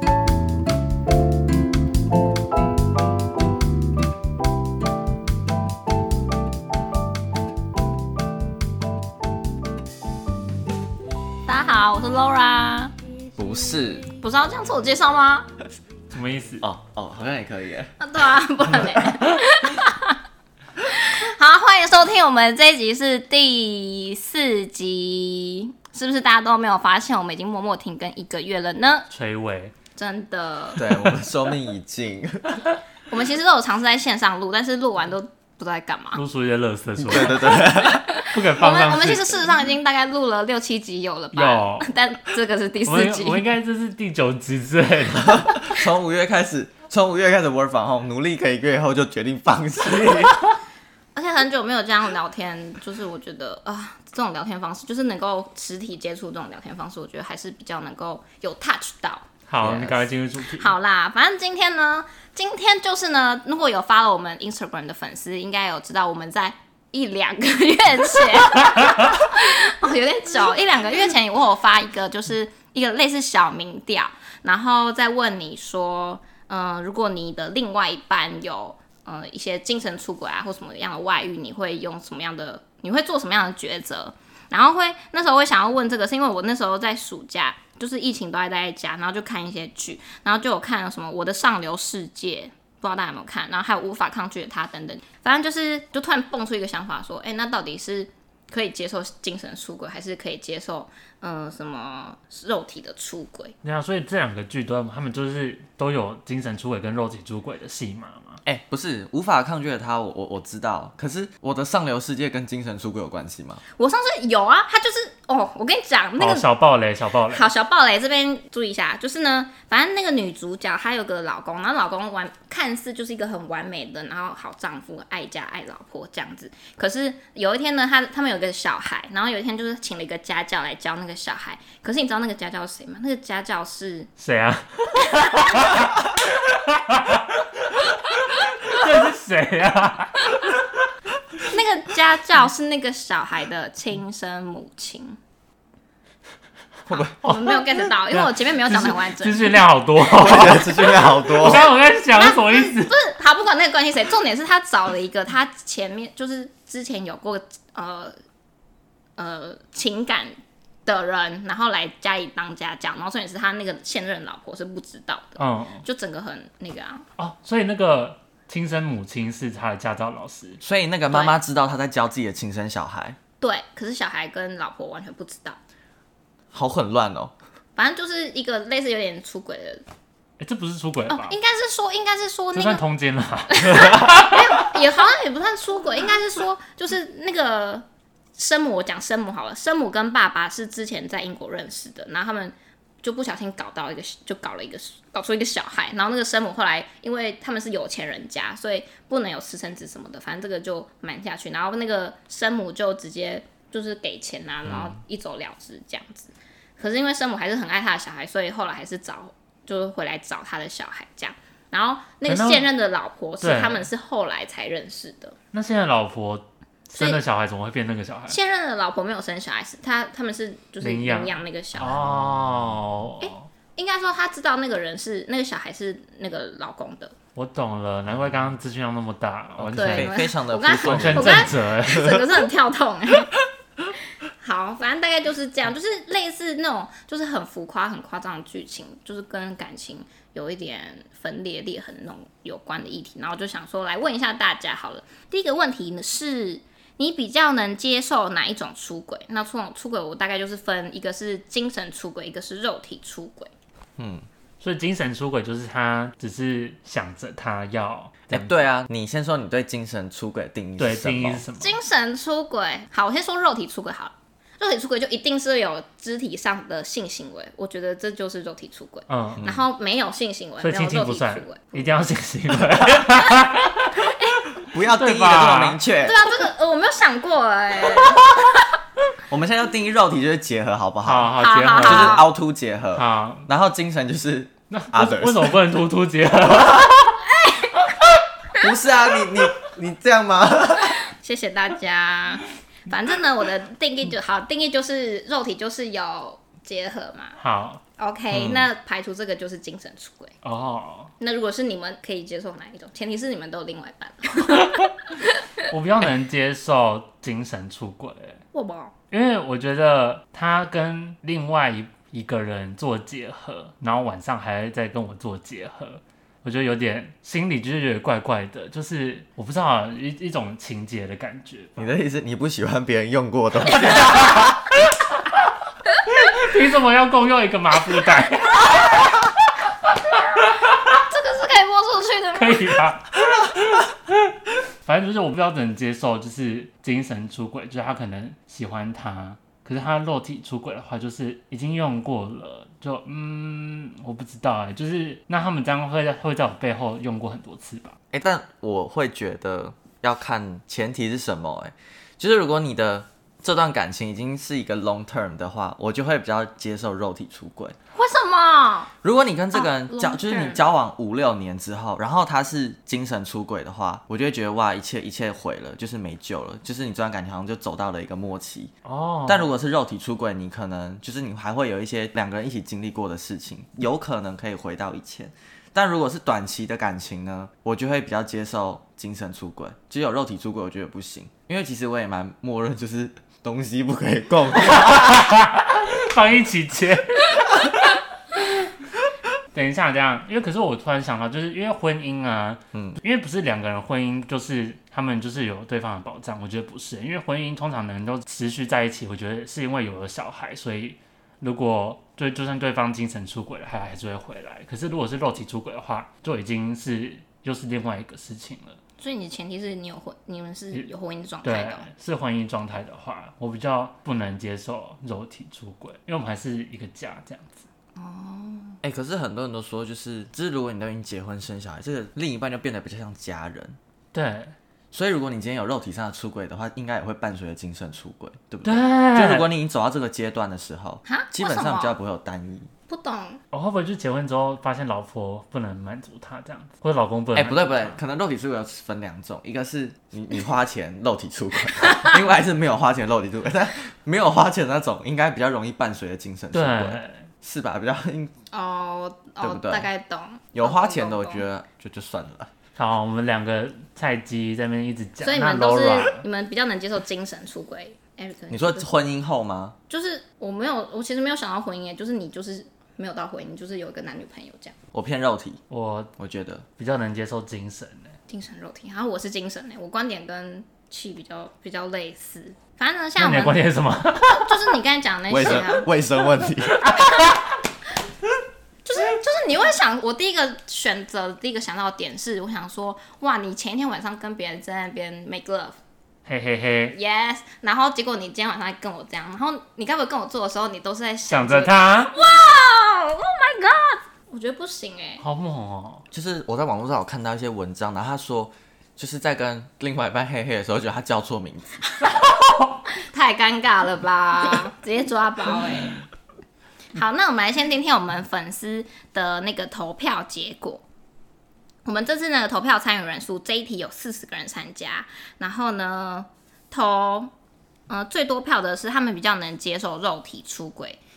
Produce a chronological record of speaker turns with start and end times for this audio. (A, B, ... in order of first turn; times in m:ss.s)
0:11.4-0:12.9 A
0:13.4-0:14.1 B
0:14.2-0:15.5 A
0:16.1-0:16.6 C
0:16.6-0:18.0 B
0:18.0-0:20.2 A
0:18.7-0:19.2 B
0:20.8-0:29.1 A
0:29.1-0:29.7 C
0:30.0-0:30.8 A
0:30.8-0:32.6 B
0:30.9-0:31.1 C
0:33.1-0:36.2 A
0:36.1-0:37.7 C
0:37.0-0:38.0 B
0:37.5-0:43.4 A
0:38.2-0:39.3 C
0:41.3-0:41.9 C
0:42.9-0:45.6 C
0:45.2-0:50.5 B
0:51.1-0:59.2 A
0:59.5-1:00.7 C
0:59.6-1:00.0 B
1:00.6-1:43.6 A
1:43.6-1:48.4 C
1:48.4-1:53.6 B
1:53.8-1:56.5 A
1:56.2-1:57.5 C
1:57.3-2:14.1 A
2:14.2-2:20.4 C
2:15.0-2:15.8 A
2:17.9-2:18.9 A
2:21.5-2:25.2 A
2:26.9-2:29.6 A
2:27.2-2:33.0 C
2:30.1-2:31.7 B
2:32.1-2:38.1 A
2:39.2-2:47.1 A
2:45.4-2:45.8 C
2:47.2-2:50.6 C
2:50.6-2:53.2 B
2:51.1-2:51.4 A
2:53.4-2:55.6 A
2:56.5-2:57.3 B
2:57.8-2:59.8 A
3:00.4-3:01.4 C
3:01.1-3:02.8 A
3:02.5-3:04.6 C
3:03.5-3:07.8 A
3:08.4-3:35.4 A
3:24.7-3:24.9 B
3:32.3-3:32.7 C
3:33.4-3:33.9 C
3:35.5-3:38.4 C
3:37.0-3:37.2 A
3:38.3-3:42.1 A
3:40.8-3:43.5 C
3:43.2-3:47.2 A
3:47.3-3:52.2 C
3:49.6-3:52.2 B
3:49.7-3:53.3 A
3:54.4-4:13.5 A
4:14.0-4:14.3 B
4:14.6-4:18.5 C
4:18.3-4:21.4 B
4:20.8-4:21.8 C
4:21.6-4:31.9 A
4:29.1-4:29.5 C
4:29.4-4:29.6 B
4:30.6-4:34.1 C
4:32.5-4:33.1 B
4:34.0-4:34.5 A
4:34.6-4:36.2 B
4:34.7-4:35.8 C
4:36.0-4:38.6 A
4:39.2-4:45.6 B
4:41.0-4:42.2 C
4:41.4-4:42.2 A
4:42.9-4:43.5 C
4:44.7-4:47.2 C
4:46.4-4:46.9 B
4:47.2-4:47.9 A
4:48.6-4:51.0 B
4:50.9-4:57.4 A
4:57.4-4:57.8 C
4:58.0-5:00.3 A
4:58.3-4:58.7 B
5:00.4-5:01.1 C
5:01.2-5:05.7 A
5:05.6-5:08.4 C
5:08.5-5:08.9 A
5:09.1-5:21.9 C
5:21.8-5:24.6 B
5:23.8-5:24.5 C
5:26.2-5:29.2 C
5:30.7-5:32.8 A
5:32.3-5:34.3 C
5:34.8-5:48.0 C
5:48.1-5:57.8 B
5:57.9-5:58.9 A
5:59.0-6:08.7 B
5:59.5-6:00.6 A
6:08.8-6:09.5 C
6:09.2-6:25.2 B
6:24.8-6:27.9 C
6:29.5-6:48.8 C
6:32.7-6:33.0 B
6:49.0-6:51.9 A
6:51.4-6:57.7 C
6:58.0-6:58.8 A
6:58.8-7:03.8 B
7:04.1-7:04.5 C
7:04.9-7:12.7 B
7:08.6-7:09.5 C
7:11.0-7:12.0 A
7:12.9-7:13.4 A
7:13.5-7:18.0 C
7:17.3-7:28.3 B
7:26.5-7:27.3 C
7:28.5-7:31.4 A
7:29.4-7:29.9 B
7:30.5-7:32.5 B
7:32.8-7:36.2 C
7:35.2-7:38.9 A
7:38.5-7:39.8 B
7:39.9-7:44.8 A
7:44.9-7:45.6 B
7:45.7-7:46.1 C
7:46.2-7:46.6 B
7:46.8-7:48.2 C
7:48.3-7:53.6 A
7:53.2-7:54.8 C
7:54.2-7:55.9 A
7:55.3-7:57.0 B
7:56.8-7:57.3 C
7:58.8-8:05.8 A
8:06.2-8:06.9 C
8:06.9-8:15.2 A
8:11.3-8:12.2 C
8:15.2-8:16.0 C
8:16.1-8:21.8 B
8:22.9-8:26.0 A
8:26.9-8:30.8 A
8:31.8-8:37.3 A
8:37.9-8:41.0 A